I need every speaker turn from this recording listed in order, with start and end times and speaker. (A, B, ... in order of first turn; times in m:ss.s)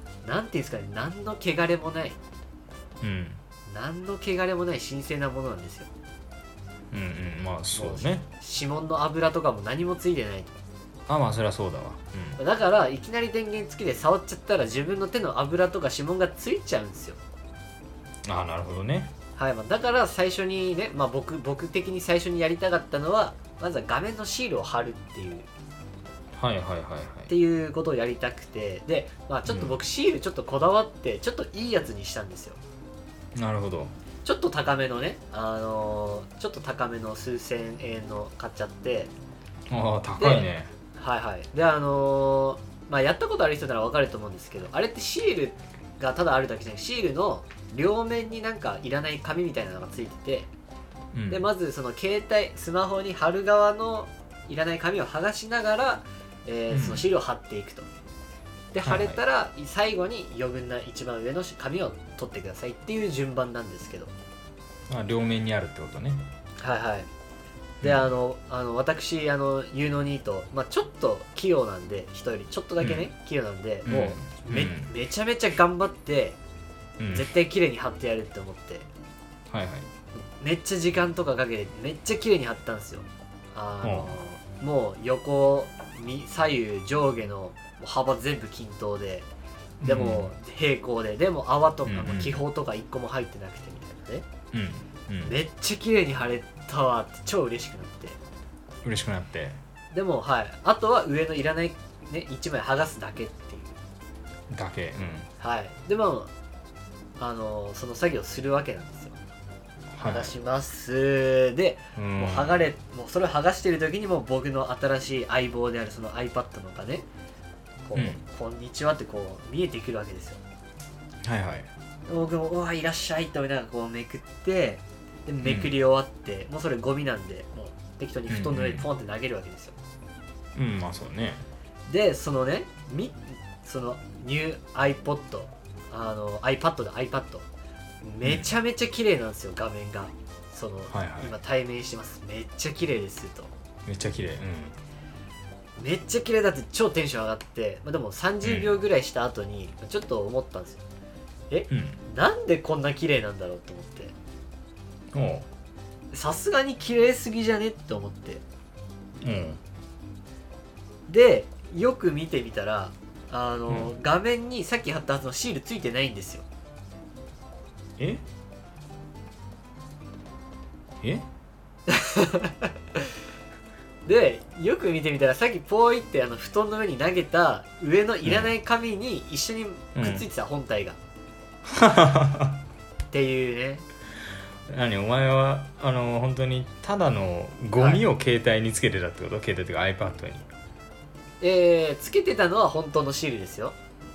0:00.2-0:02.2 A
0:03.0-0:03.4 B
0:03.7-0:05.9 A
0:06.9-0:08.3 B
0:07.7-0:10.5 A
0:11.1-0:12.4 B
0:12.4-0:17.2 A
0:18.2-0:19.1 B
0:19.4-0:25.5 A
0:26.3-0:27.3 B
0:27.3-0:32.6 A
0:29.4-0:29.8 B
0:33.3-0:33.9 B
0:34.2-0:39.1 A
0:39.7-0:40.7 B
0:40.2-0:50.5 A
0:51.1-0:51.4 B
0:51.3-0:57.9 A
0:56.7-0:57.1 B
0:58.7-1:04.1 A
0:58.8-0:59.2 B
1:04.9-1:06.2 B
1:06.6-1:07.1 A
1:07.8-1:08.1 B
1:07.8-1:16.4 A
1:12.8-1:13.1 B
1:13.8-1:14.9 B
1:17.0-1:17.3 B
1:17.1-1:18.9 A
1:19.5-1:19.9 B
1:20.1-1:29.3 A
1:23.8-1:24.2 B
1:29.8-1:30.3 B
1:29.8-1:34.2 A
1:31.8-1:32.4 B
1:34.5-1:35.4 B
1:35.2-1:38.2 A
1:38.8-1:39.6 B
1:39.9-1:43.8 A
1:44.5-1:45.3 B
1:45.4-1:46.3 A
1:47.2-1:49.2 A
1:49.9-1:50.4 B
1:50.0-1:57.0 A
1:52.0-1:52.6 B
1:57.8-2:00.4 A
1:57.9-1:58.2 B
2:01.2-2:01.7 B
2:02.1-2:09.8 A
2:05.4-2:05.8 B
2:08.3-2:08.9 B
2:10.5-2:11.4 B
2:11.9-2:17.5 A
2:18.0-2:23.5 A
2:20.9-2:21.3 B
2:23.8-2:24.8 B
2:25.8-2:30.8 A
2:28.4-2:28.8 B
2:31.5-2:34.2 A
2:31.7-2:32.0 B
2:35.1-2:35.5 B
2:36.1-2:38.4 A
2:39.2-2:39.6 B
2:41.1-2:46.5 A
2:43.7-2:43.9 B
2:48.0-2:48.2 B
2:51.0-2:51.3 B
2:51.9-2:53.1 A
2:54.0-3:01.0 A
2:58.2-2:58.5 B
3:00.0-3:00.3 B
3:01.7-3:02.6 B
3:03.1-3:03.8 A
3:04.7-3:10.5 B
3:07.7-3:08.0 A
3:11.4-3:13.8 A